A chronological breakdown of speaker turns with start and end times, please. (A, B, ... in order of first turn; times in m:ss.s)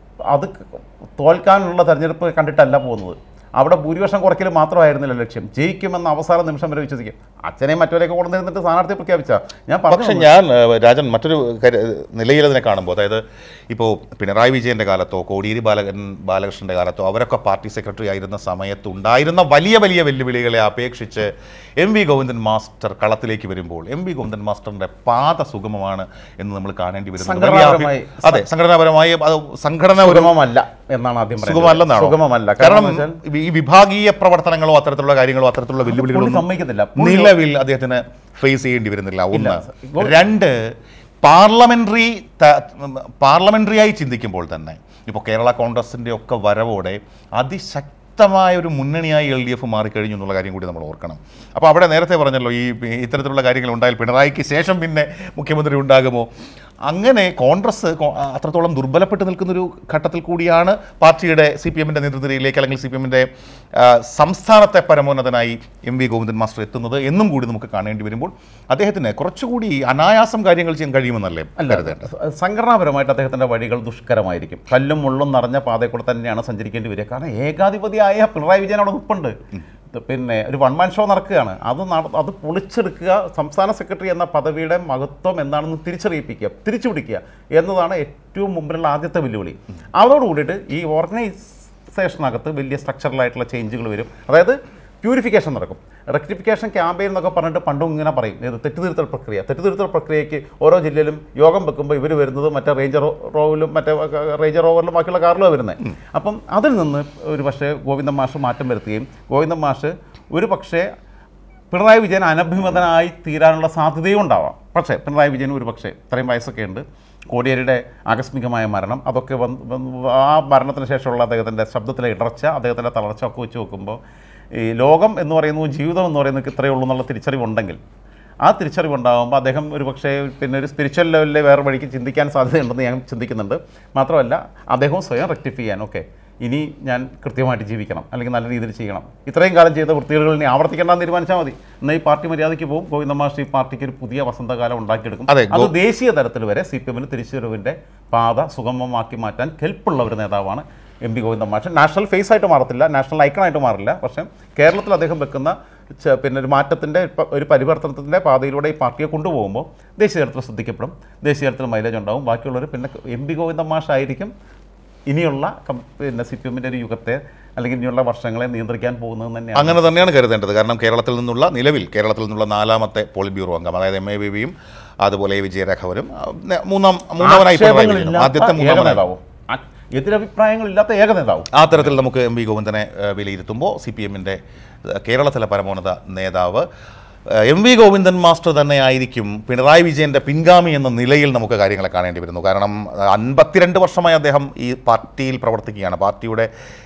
0:00.3-0:10.3 A
0:09.9-0:30.3 B
0:27.2-0:28.4 A
0:30.0-0:33.2 A
0:31.4-0:36.4 B
0:35.9-0:37.3 A
0:37.0-0:40.6 B
0:39.3-0:40.2 A
0:41.2-0:56.3 B
0:56.9-1:12.1 B
1:11.6-1:19.4 A
1:19.9-1:50.9 A
1:51.7-2:04.0 A
2:04.5-2:07.8 A
2:08.4-2:44.3 A
2:25.3-2:25.7 B
2:45.1-2:50.0 A
2:49.5-2:59.0 B
2:57.2-3:01.9 A
3:01.5-3:06.6 B
3:07.3-3:16.5 B